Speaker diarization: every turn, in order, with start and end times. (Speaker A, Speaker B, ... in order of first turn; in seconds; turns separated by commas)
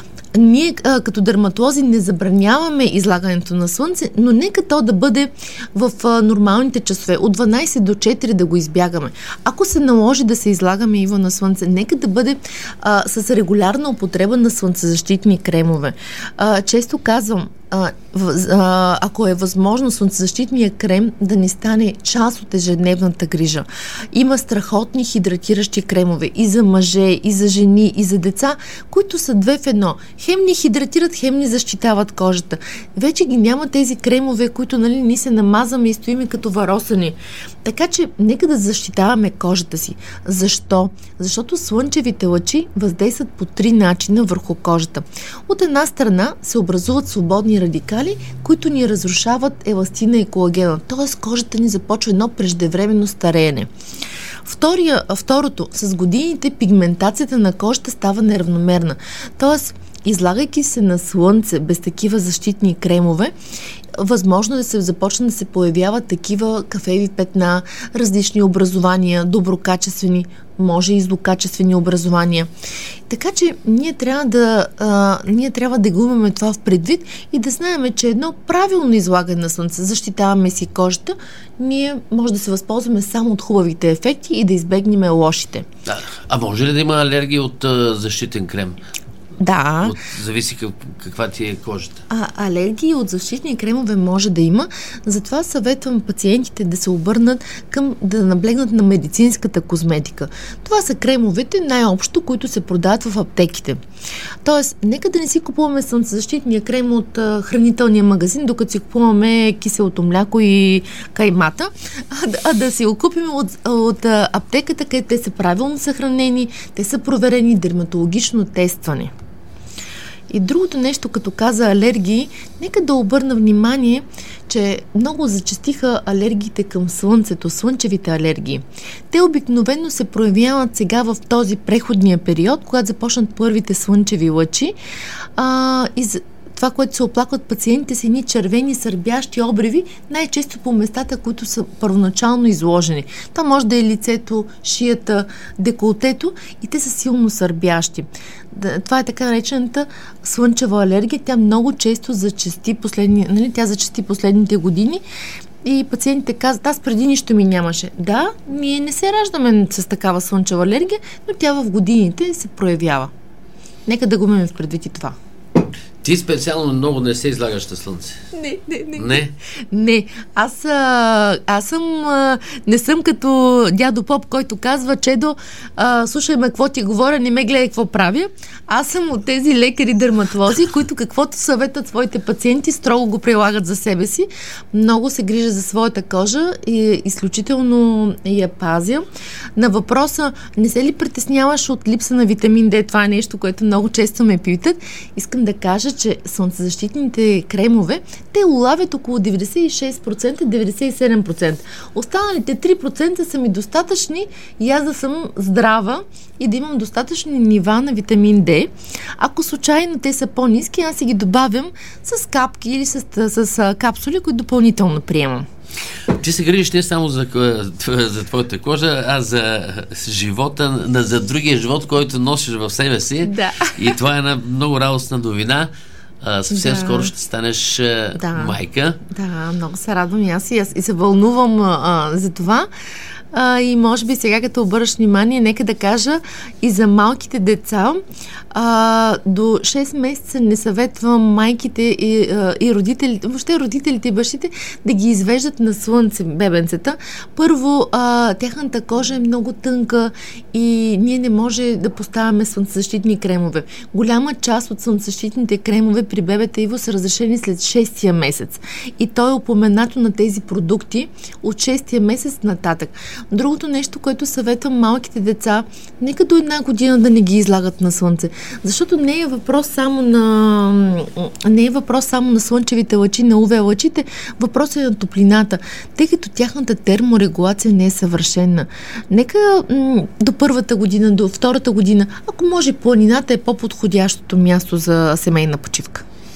Speaker A: 0.3-53.7, Speaker A: 54.4-63.3, Speaker A: 64.0-72.5, Speaker A: 73.1-85.7, Speaker B: 85.8-88.8, Speaker A: 89.4-89.9, Speaker B: 89.8-92.0, Speaker A: 92.1-103.8, Speaker A: 104.4-119.1, Speaker A: 120.3-134.7, Speaker A: 135.4-155.0, Speaker A: 155.6-163.1, Speaker A: 163.8-165.2, Speaker B: 166.0-168.2, Speaker A: 168.3-215.4, Speaker B: 169.0-169.3, Speaker B: 216.1-225.7, Speaker A: 223.2-223.9, Speaker B: 226.2-229.0, Speaker A: 226.5-227.1, Speaker A: 228.1-228.6, Speaker A: 229.1-232.7, Speaker A: 233.3-238.0, Speaker A: 238.5-286.0